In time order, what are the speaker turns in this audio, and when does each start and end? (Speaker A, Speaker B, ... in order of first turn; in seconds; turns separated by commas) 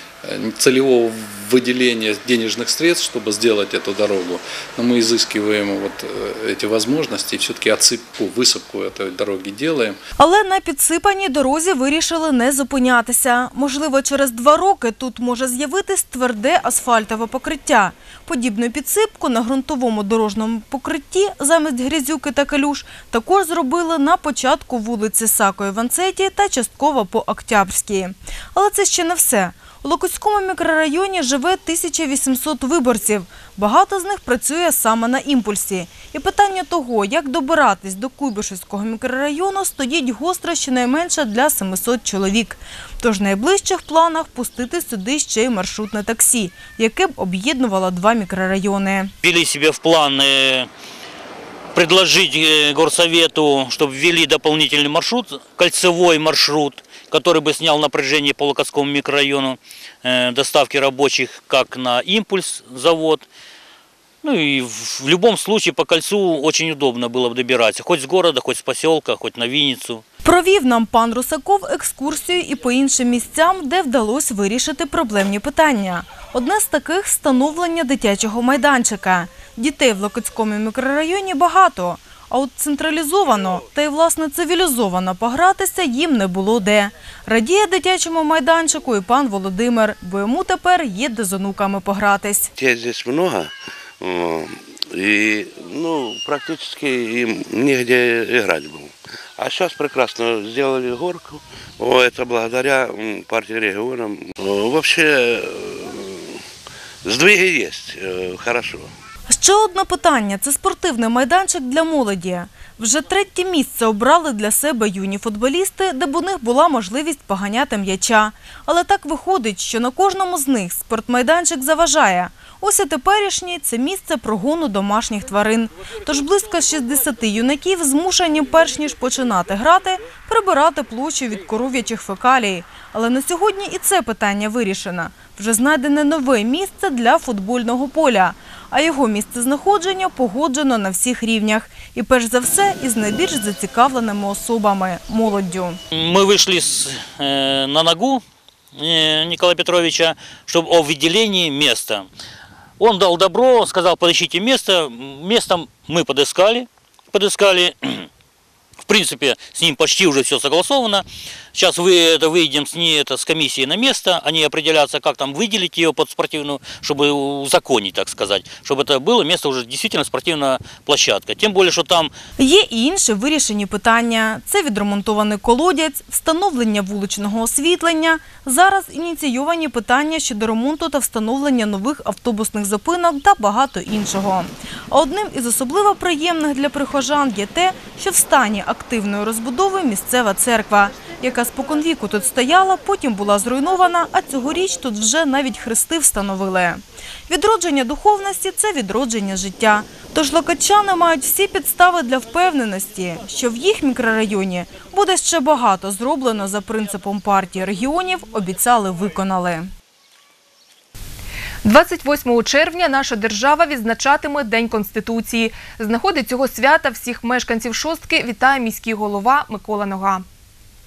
Speaker A: 0.2-10.0, Speaker B: 10.2-49.1, Speaker C: 49.2-50.7, Speaker C: 51.7-63.3, Speaker C: 64.2-70.0, Speaker B: 70.2-92.5, Speaker D: 92.6-106.4, Speaker D: 107.0-108.9, Speaker B: 109.3-145.8, Speaker C: 145.9-148.2, Speaker C: 148.7-152.1, Speaker C: 152.8-158.1, Speaker C: 158.8-172.1, Speaker B: 172.4-209.7, Speaker E: 211.6-220.2